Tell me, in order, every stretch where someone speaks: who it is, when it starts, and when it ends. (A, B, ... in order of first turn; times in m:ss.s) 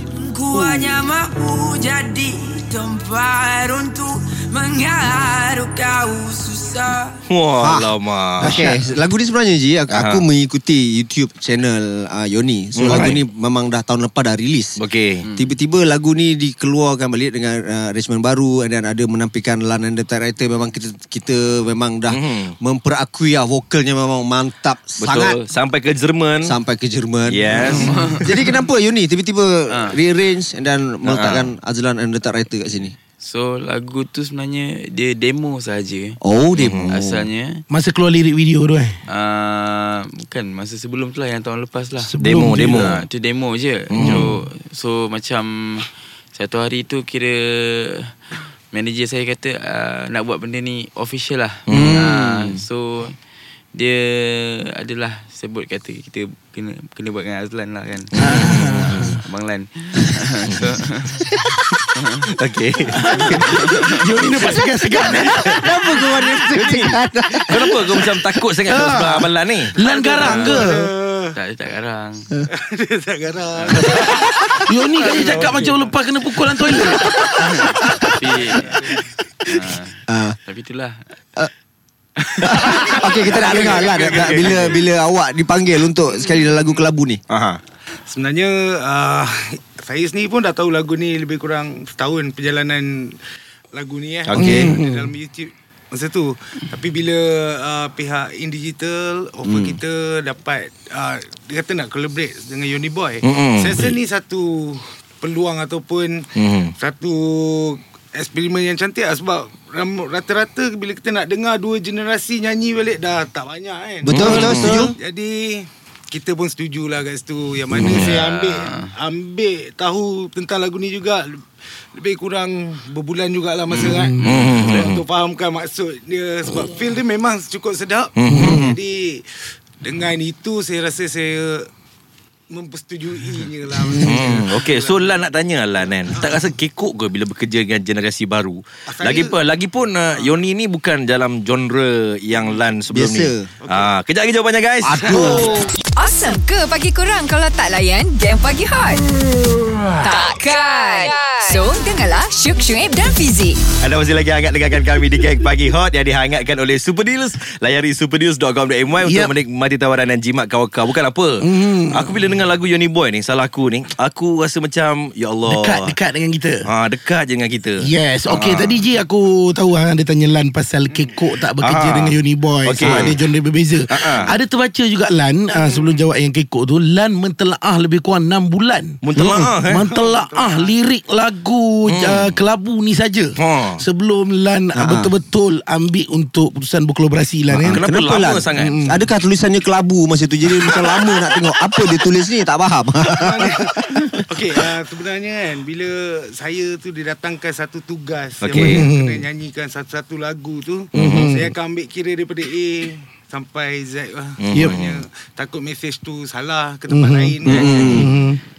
0:00.2-0:07.1 A
0:07.3-0:08.6 B
0:07.6-0:14.8 C
0:08.4-0:09.0 D
0:09.9-0:10.2 B
0:12.8-0:13.2 B
0:12.9-0:13.2 D
0:14.8-0:15.2 B
0:15.2-0:15.5 E
0:15.4-0:25.4 C
0:22.1-0:22.6 B
0:25.0-0:26.6 B
0:26.4-0:33.0 C
0:27.3-0:28.0 B
0:27.7-0:28.3 E
0:29.7-0:30.0 E
0:31.1-0:31.5 B
0:33.2-0:36.2 E
0:36.2-0:37.3 C
0:36.6-0:36.9 B
0:36.9-0:37.6 E
0:37.7-0:39.0 D
0:39.1-0:48.2 E
0:42.0-0:42.9 D
0:42.2-0:43.0 B
0:43.9-0:44.3 B
0:48.7-0:53.2 E
0:51.7-0:52.1 B
0:51.7-0:52.5 C
0:53.7-0:58.4 E
0:58.2-0:59.2 B
0:58.2-0:59.2 D
0:58.9-1:01.3 E
1:02.3-1:03.5 B
1:02.9-1:06.0 D
1:03.4-1:04.0 E
1:05.3-1:07.0 B
1:05.3-1:08.0 C
1:07.5-1:09.8 B
1:08.7-1:10.9 D
1:09.8-1:11.4 F
1:10.2-1:10.7 E
1:11.4-1:12.3 E
1:12.5-1:14.3 F
1:13.6-1:14.2 E
1:14.7-1:18.5 D
1:15.0-1:15.9 F
1:15.1-1:15.7 E
1:17.3-1:18.8 E
1:18.6-1:19.0 F
1:19.5-1:21.0 E
1:20.1-1:20.4 C
1:22.2-1:23.6 E
1:22.4-1:27.2 C
1:23.2-1:24.8 B
1:27.3-1:27.6 B
1:28.1-1:33.2 F
1:33.7-1:46.3 F
1:34.2-1:34.8 B
1:34.3-1:35.1 D
1:39.5-1:39.7 B
1:43.2-1:44.0 B
1:46.4-1:46.7 B
1:46.8-2:01.4 F
1:54.0-1:54.9 C
1:54.1-1:54.8 B
1:54.2-1:54.9 D
1:57.8-1:58.2 B
1:57.8-1:58.9 E
2:02.0-2:09.3 F
2:03.7-2:04.8 E
2:03.8-2:04.4 D
2:04.2-2:05.0 B
2:08.2-2:08.7 B
2:08.3-2:08.8 D
2:09.8-2:11.7 F
2:12.5-2:15.2 F
2:13.8-2:14.3 D
2:14.0-2:25.6 B
2:18.9-2:19.4 F
2:22.9-2:23.5 C
2:23.6-2:23.9 F
2:24.8-2:25.7 C
2:25.0-2:25.5 F
2:25.9-2:29.0 G
2:30.0-2:33.6 G
2:33.8-2:46.0 B
2:39.0-2:39.4 D
2:41.4-2:42.2 D
2:45.5-2:46.7 D
2:46.7-2:48.8 B
2:47.8-3:07.8 D
2:51.6-2:53.2 B
2:52.8-2:53.1 C
2:53.9-2:54.3 B
2:59.0-2:59.8 B
2:59.2-2:59.5 C
2:59.8-3:00.7 F
3:01.9-3:02.4 B
3:03.4-3:03.8 B
3:04.8-3:05.1 C
3:07.5-3:14.2 C
3:07.7-3:08.8 B
3:08.6-3:09.0 D
3:13.2-3:13.7 F
3:14.3-3:28.0 F
3:18.4-3:18.9 B
3:18.6-3:19.2 D
3:21.0-3:21.3 B
3:21.0-3:21.5 D
3:24.4-3:25.0 B
3:24.5-3:24.8 D
3:26.9-3:28.4 D
3:27.5-3:28.1 C
3:27.6-3:28.0 E